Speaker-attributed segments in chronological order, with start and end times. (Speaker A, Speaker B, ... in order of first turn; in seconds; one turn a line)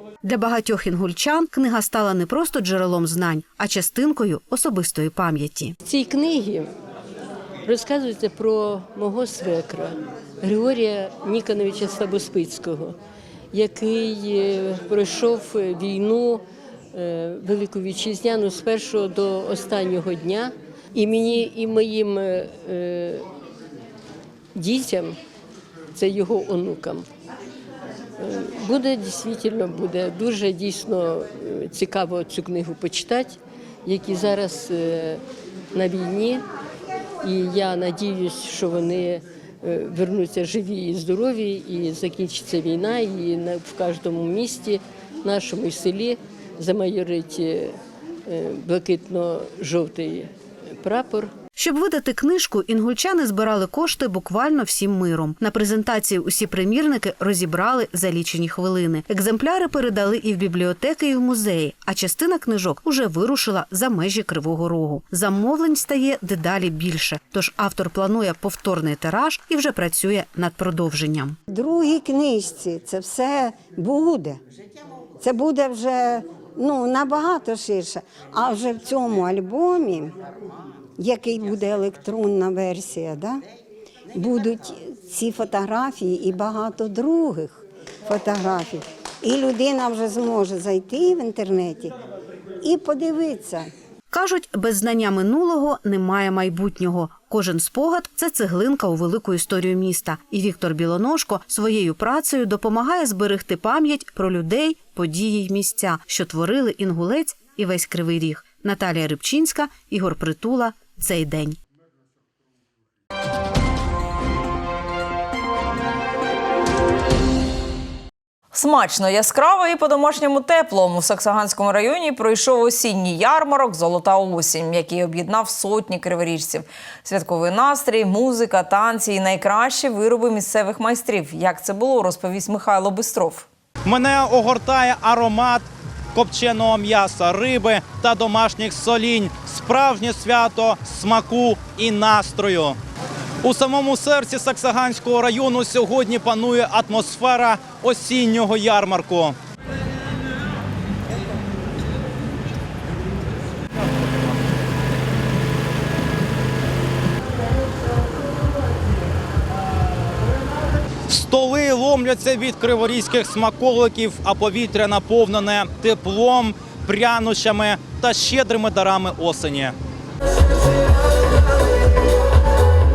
Speaker A: 0.2-5.7
Speaker B: 5.8-6.7
Speaker B: 7.7-13.0
Speaker B: 13.5-16.4
Speaker B: 16.9-23.2
Speaker B: 24.6-25.1
Speaker B: 25.9-27.1
Speaker B: 28.2-35.2
Speaker B: 35.7-36.4
Speaker B: 37.2-51.3
Speaker A: 51.6-71.4
Speaker C: 71.5-74.4
Speaker C: 75.2-80.1
Speaker C: 81.0-83.4
Speaker C: 84.1-92.0
Speaker C: 92.6-93.7
Speaker A: 94.1-111.6
Speaker D: 118.5-133.5
Speaker E: 133.9-142.8
Speaker E: 143.4-149.4
Speaker E: 161.1-169.8